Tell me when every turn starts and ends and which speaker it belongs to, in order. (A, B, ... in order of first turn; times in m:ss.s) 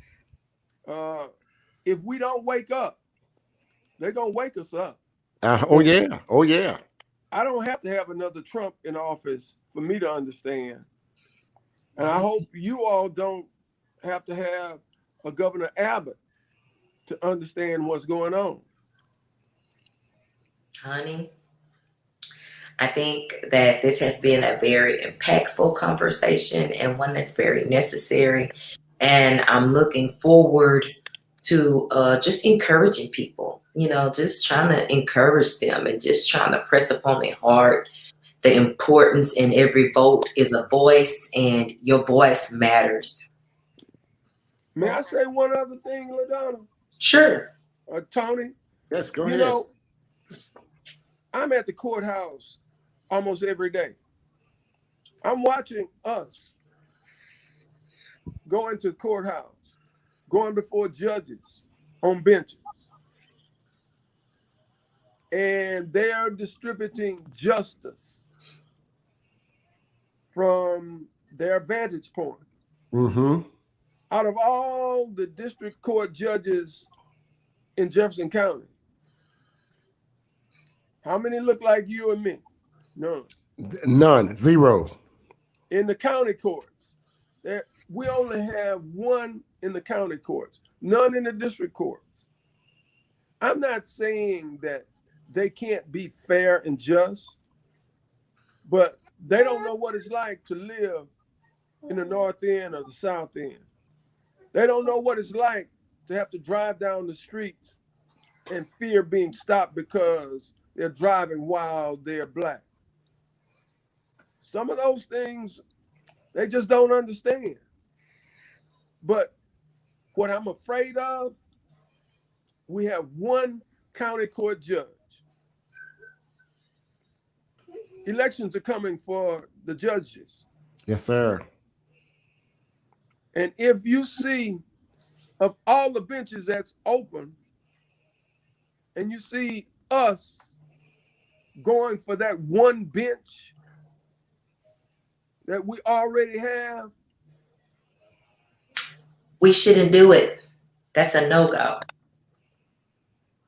0:00.9-0:01.3 A
0:01.8-0:03.0 A
0:04.0-0:05.0 A
0:05.4-0:06.8 B
0:07.3-0:10.9 A
0:12.0-0:13.5 A
0:14.0-0:16.2 A
0:17.1-0:18.6 A
0:20.8-0:21.3 C
0:22.8-0:30.9 C
0:31.4-0:37.9 C
0:38.4-0:43.3 C
0:44.8-0:46.7 A
0:47.0-0:47.5 C
0:47.9-0:48.6 A
0:48.9-0:49.6 B
0:49.2-0:49.7 A
0:51.3-0:52.6 A
0:53.1-0:54.0 A
0:55.2-0:56.5 A
0:58.5-0:59.7 A
1:00.3-1:02.9 A
1:05.3-1:08.2 A
1:10.3-1:12.4 A
1:12.9-1:13.5 B
1:14.1-1:16.9 A
1:17.8-1:18.7 A
1:21.0-1:22.4 A
1:23.0-1:23.3 A
1:23.6-1:25.0 B
1:25.7-1:26.8 A
1:27.4-1:32.1 A
1:33.4-1:37.4 A
1:38.6-1:41.1 A
1:41.9-1:43.6 A
1:44.5-1:47.8 A
1:48.5-1:52.6 A
1:54.4-1:55.6 A
1:56.3-1:57.6 A
1:59.0-1:59.3 A
2:00.1-2:01.4 A
2:02.7-2:05.2 A
2:08.0-2:10.4 A
2:10.9-2:11.4 B
2:13.3-2:14.6 A
2:15.4-2:17.4 A
2:19.0-2:20.4 A
2:21.6-2:23.5 A
2:25.5-2:26.9 A
2:29.4-2:30.4 C
2:30.9-2:31.8 C